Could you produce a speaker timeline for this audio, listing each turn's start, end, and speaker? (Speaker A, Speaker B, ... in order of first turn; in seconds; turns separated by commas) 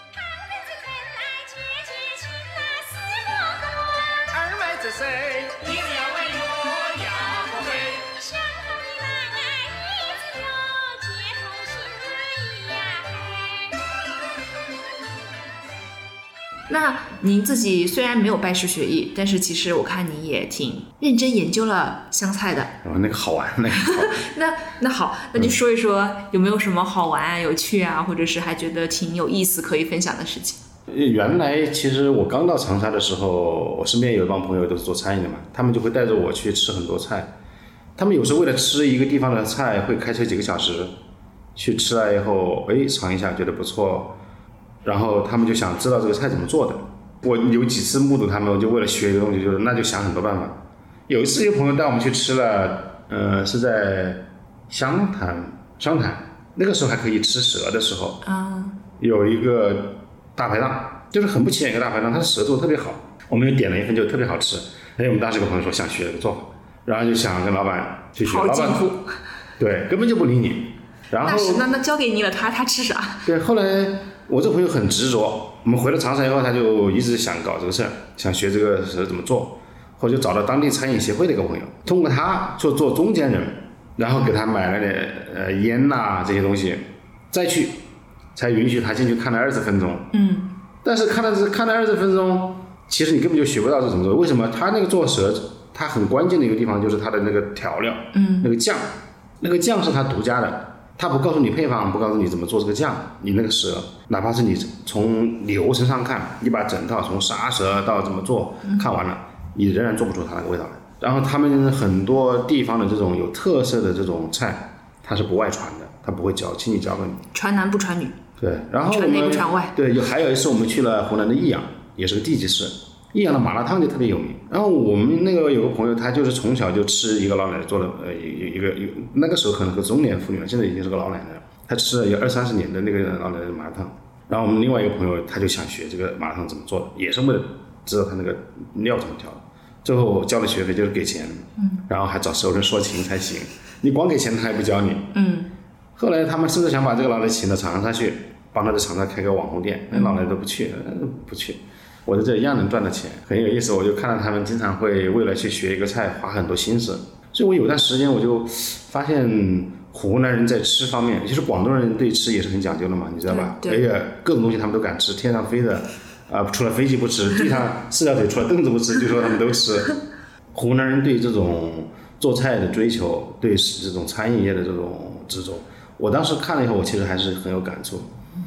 Speaker A: 0.7-4.2, Speaker B: 4.3-8.2, Speaker A: 8.1-13.3, Speaker A: 16.7-22.8, Speaker C: 22.8-24.3, Speaker A: 23.8-30.6, Speaker C: 30.9-37.3, Speaker C: 38.0-40.9, Speaker C: 41.6-44.2, Speaker C: 44.8-58.2, Speaker A: 58.2-58.8, Speaker C: 59.0-68.9, Speaker A: 68.2-69.1, Speaker C: 69.6-71.7, Speaker A: 71.2-73.3, Speaker C: 73.2-87.8, Speaker C: 88.3-90.1, Speaker A: 90.1-90.5, Speaker C: 90.8-117.2, Speaker A: 98.1-98.5, Speaker A: 117.3-118.2, Speaker C: 118.4-145.1, Speaker A: 118.9-119.8, Speaker A: 145.1-145.5, Speaker C: 146.0-170.0, Speaker A: 149.9-150.2, Speaker A: 163.3-163.8, Speaker C: 170.5-178.1